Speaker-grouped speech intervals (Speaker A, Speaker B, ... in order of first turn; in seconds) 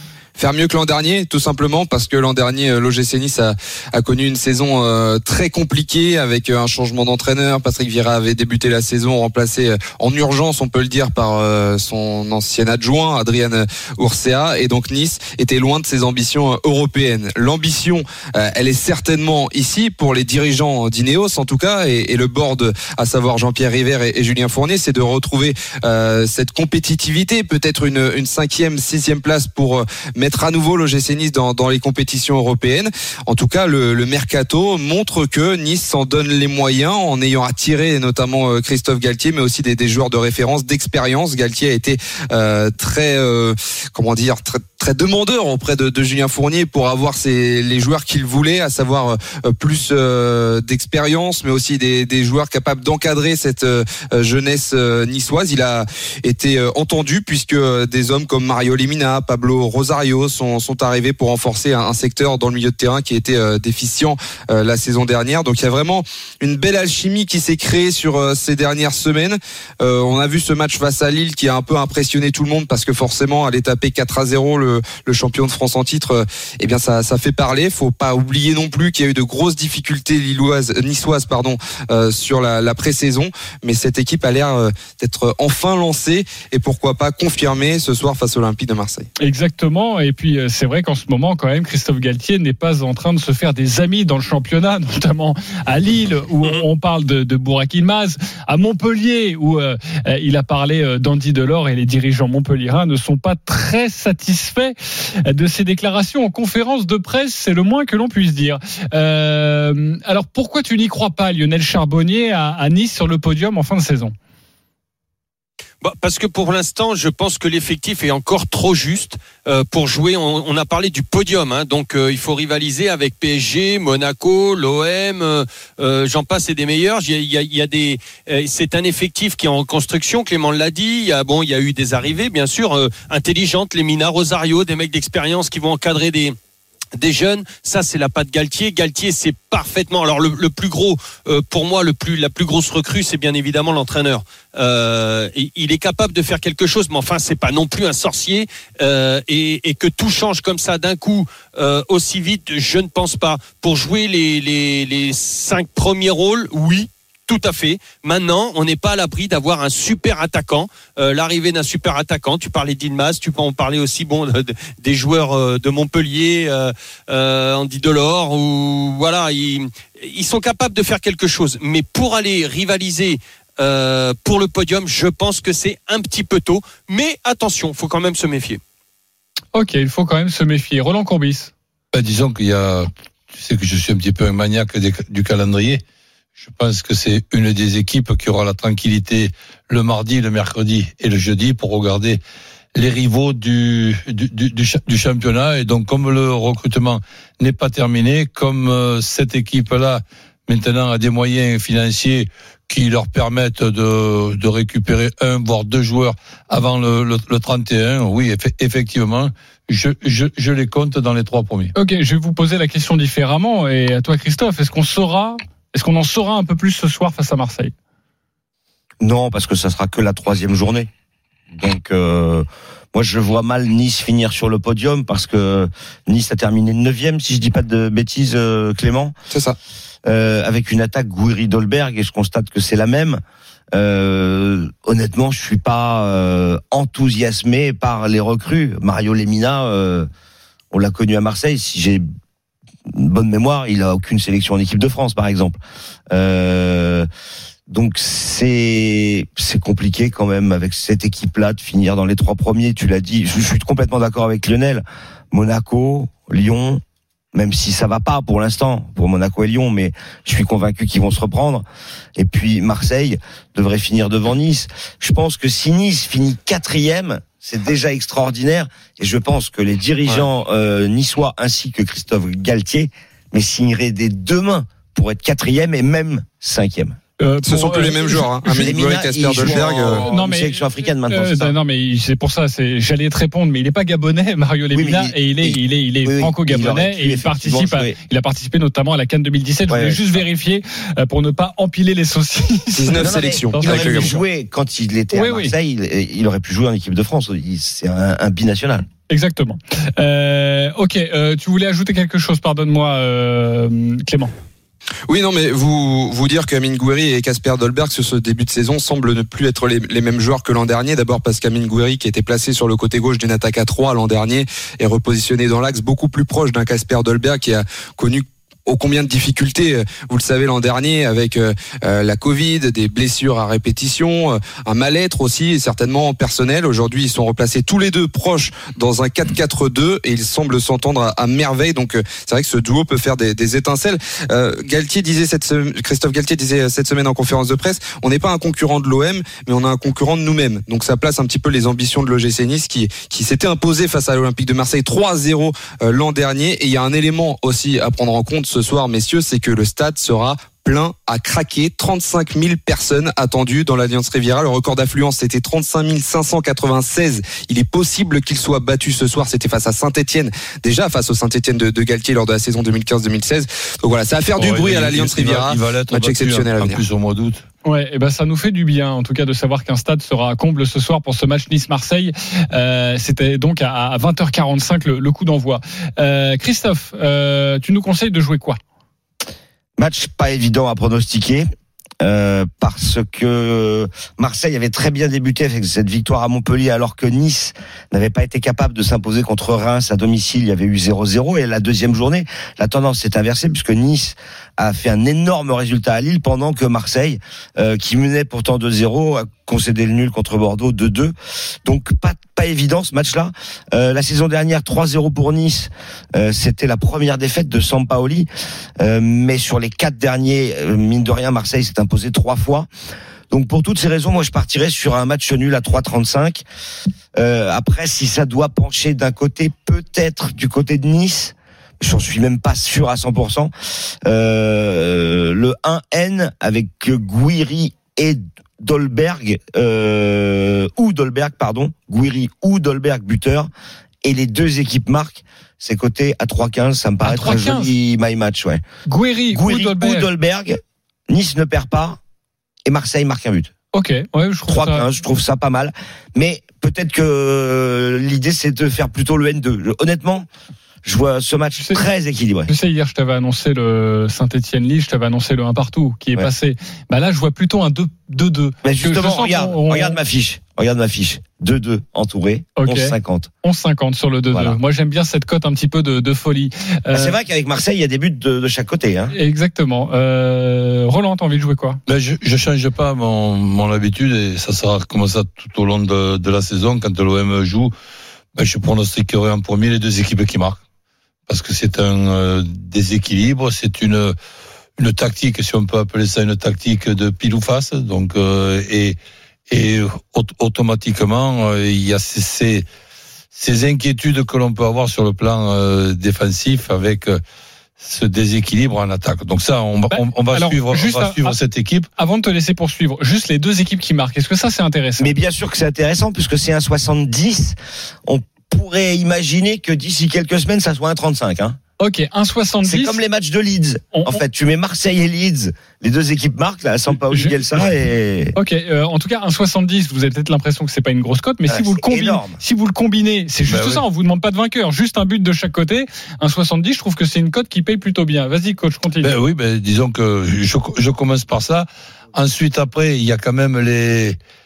Speaker A: 0.4-89.1, 277.4-280.0, 292.7-294.1, 305.1-366.8
Speaker B: 89.2-114.1, 179.5-181.5, 211.8-217.7, 277.2-278.2, 279.9-294.1, 295.1-295.5, 299.1-304.3, 367.6-378.6, 437.0-437.7, 438.9-440.1, 443.7-444.9, 451.6-451.8, 452.5-460.0, 462.6-467.1, 469.1-471.8, 499.9-501.4, 502.0-505.1, 511.8-513.0, 513.9-514.2, 518.4-529.1
Speaker C: 115.8-136.3, 136.9-178.6
Speaker D: 181.9-185.8, 186.4-192.2, 192.7-211.7, 364.4-367.4, 471.9-477.7, 478.3-480.6, 481.3-484.1, 484.8-489.0, 489.5-492.6, 493.3-497.2, 497.8-501.9, 523.5-523.8, 529.0-534.2
Speaker E: 219.0-220.9, 221.5-229.1, 230.0-233.2, 233.7-240.1, 240.7-242.0, 242.9-247.1, 247.7-256.8, 257.3-261.6, 262.2-277.0, 278.4-281.6, 284.7-288.0, 289.7-290.2, 292.9-298.9, 379.8-381.5, 382.0-401.1, 401.6-408.3, 408.8-412.7, 413.3-416.4, 417.1-423.5, 424.1-433.5, 434.0-438.6, 439.3-442.0, 442.6-443.5, 444.5-450.3, 450.8-452.5, 458.6-463.3, 464.3-464.6, 466.9-469.1, 505.0-511.6, 512.6-518.3, 521.5-522.4